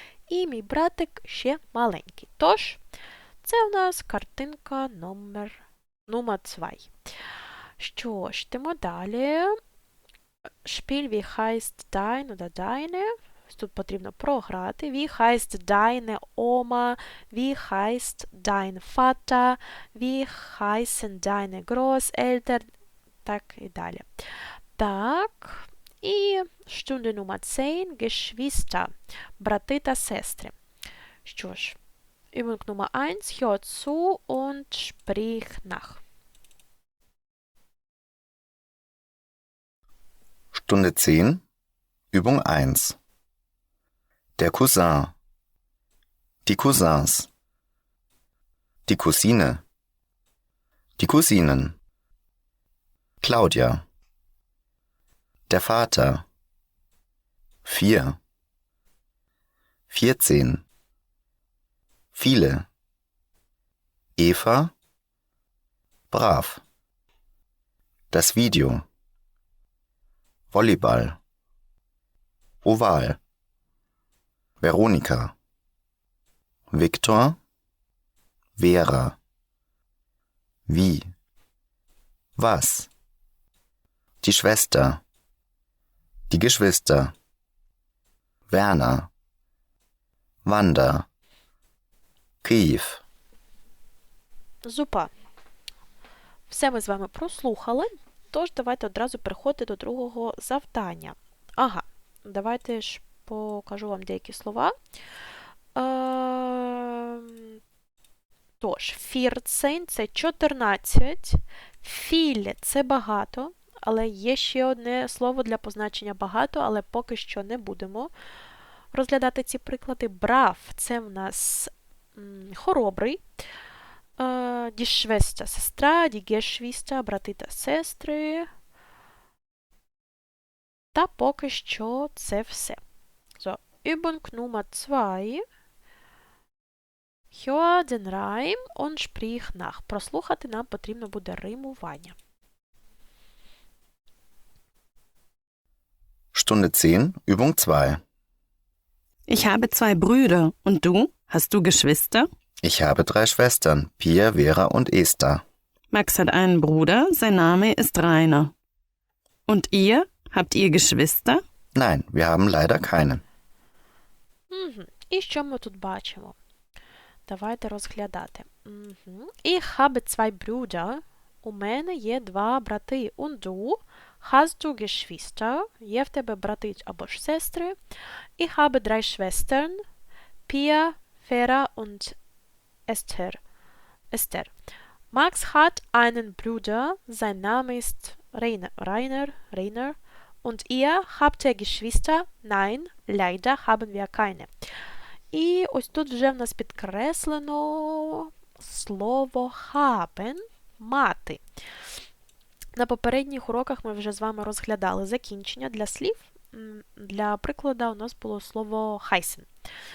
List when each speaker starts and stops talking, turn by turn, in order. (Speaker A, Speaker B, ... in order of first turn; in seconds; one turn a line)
Speaker A: 0.3-2.8
Speaker A: 3.4-6.9
Speaker A: 7.8-9.6
Speaker A: 10.7-22.7
Speaker A: 23.2-24.1
Speaker A: 24.8-30.5
Speaker A: 31.2-31.8
Speaker A: 32.3-36.0
Speaker B: 40.5-41.4
Speaker B: 42.1-43.0
Speaker B: 44.4-45.1
Speaker B: 46.5-47.3
Speaker B: 48.9-49.6
Speaker B: 51.0-51.8
Speaker B: 53.2-53.8
Speaker B: 55.5-56.2
Speaker B: 57.6-58.2
Speaker B: 59.9-60.6
Speaker B: 62.1-62.7
Speaker B: 64.2-64.7
Speaker B: 66.1-66.6
Speaker B: 68.1-68.8
Speaker B: 70.5-71.2
Speaker B: 72.6-73.2
Speaker B: 74.6-75.3
Speaker B: 76.7-77.4
Speaker B: 78.6-79.2
Speaker B: 80.7-81.1
Speaker B: 82.4-82.9
Speaker B: 84.2-85.0
Speaker B: 86.3-87.1
Speaker B: 88.5-89.1
Speaker B: 90.5-91.1
Speaker B: 92.4-93.0
Speaker A: 94.6-95.1
Speaker A: 96.5-104.8
Speaker A: 105.8-107.6
Speaker A: 108.6-118.1
Speaker A: 118.9-123.2
Speaker A: 124.2-128.5
Speaker A: 130.9-132.8
Speaker A: 133.4-135.4
Speaker A: 137.3-142.2
Speaker B: 146.3-148.0
Speaker C: 149.3-152.3
Speaker B: 152.6-155.4
Speaker C: 155.9-158.5
Speaker C: 159.5-161.4
Speaker B: 161.8-163.2
Speaker A: 164.5-166.4
Speaker A: 167.3-177.8
Speaker A: 178.4-179.8
Speaker A: 180.5-182.2
Speaker A: 182.9-183.4
Speaker A: 184.1-184.5
Speaker A: 185.1-194.5
Speaker A: 195.3-201.4
Speaker A: 202.8-209.5